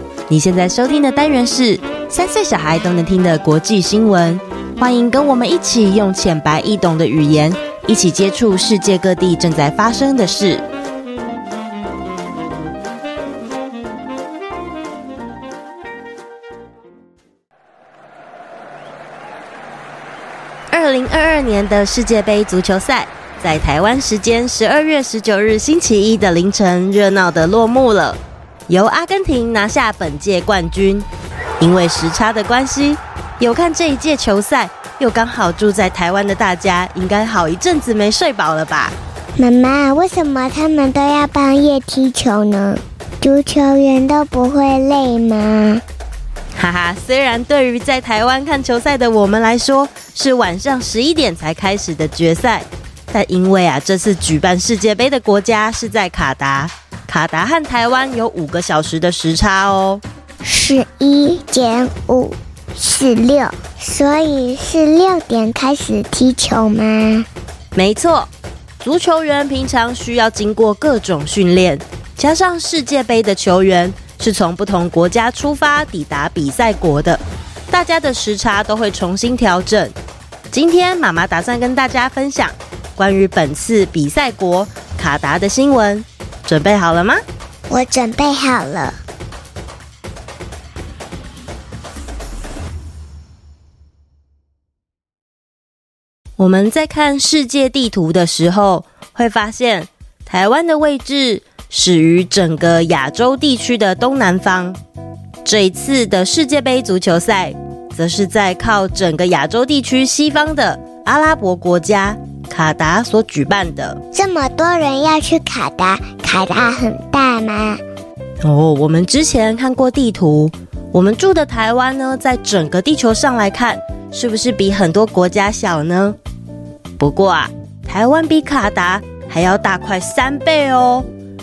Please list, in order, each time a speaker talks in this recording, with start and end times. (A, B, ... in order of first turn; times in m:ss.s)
0:00.3-0:10.6 A
0:20.7-0:31.1 A
0:31.6-0:39.0 A
0:39.4-0:45.8 B
0:46.6-1:00.0 A
1:00.4-1:07.3 B
1:07.8-1:19.9 A
1:20.5-1:27.2 A
1:27.7-1:29.0 B
1:36.4-1:44.8 A
1:45.4-1:54.0 A
1:54.1-1:57.8 B
1:58.4-2:06.2 A
2:07.0-2:11.1 A